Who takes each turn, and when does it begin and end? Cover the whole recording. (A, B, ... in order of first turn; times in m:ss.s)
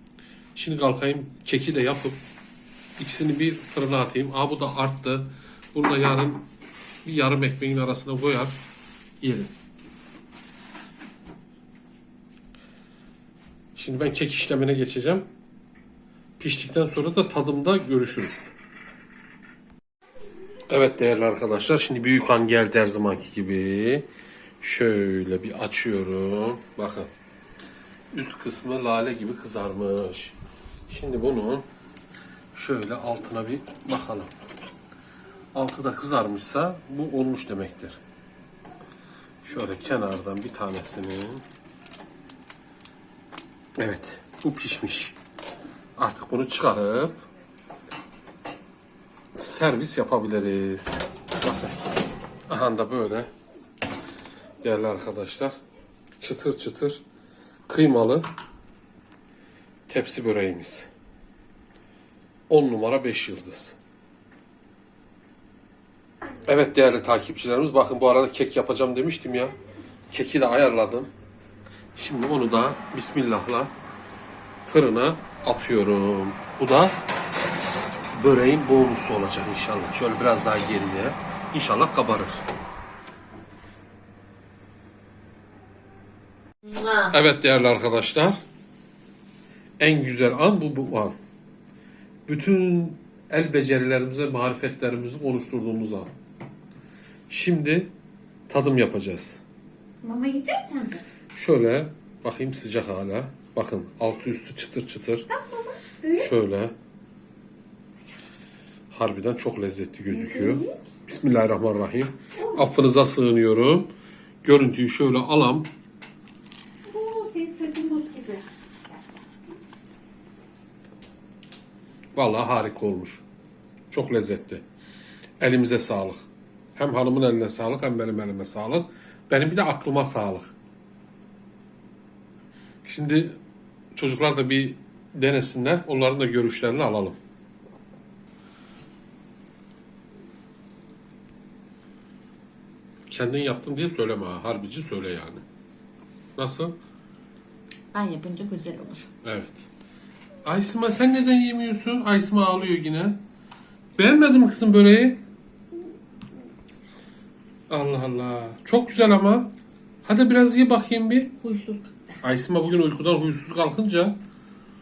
0:00.6-0:02.2 A
0:03.0-0:06.4 A
0:07.0-0:08.6 A
0:09.2-0:09.5 A
0:13.8-0:15.3 A
0:16.4-0:18.5 A
0:20.7-0:24.1 A
0:24.6-0:27.1 A
0:28.1-0:30.4 A
0:30.9-0:31.6 A
0:32.5-0:34.3 A
0:35.5-0:38.0 A
0:39.4-0:41.4 A
0:43.8-0:45.2 A
0:46.0-0:47.2 A
0:49.4-0:51.8 A
0:52.5-0:53.3 A
0:54.6-0:55.6 A
0:56.2-0:57.0 A
0:57.7-0:58.2 A
0:59.9-1:00.9 A
1:02.5-1:03.8 A
1:06.4-1:09.6 A
1:10.1-1:11.1 A
1:12.0-1:13.7 A
1:14.6-1:17.0 A
1:18.1-1:22.4 A
1:26.9-1:28.4 A
1:29.8-1:31.2 A
1:32.3-1:36.1 A
1:37.3-1:37.9 A
1:38.5-1:39.4 A
1:40.0-1:41.0 B
1:41.4-1:45.3 A
1:45.4-1:46.3 B
1:46.2-1:46.8 A
1:48.9-1:53.9 A
1:50.1-1:50.9 B
1:54.4-1:55.7 A
1:56.8-1:59.2 B
2:02.2-2:03.2 A
2:03.9-2:04.6 A
2:05.4-2:10.5 A
2:12.8-2:13.4 A
2:14.0-2:17.2 A
2:23.1-2:25.4 A
2:26.4-2:26.8 A
2:27.9-2:29.1 B
2:29.2-2:29.7 A
2:30.4-2:33.2 A
2:34.0-2:35.2 A
2:37.7-2:39.5 A
2:40.0-2:41.4 A
2:41.4-2:42.2 B
2:42.2-2:44.2 A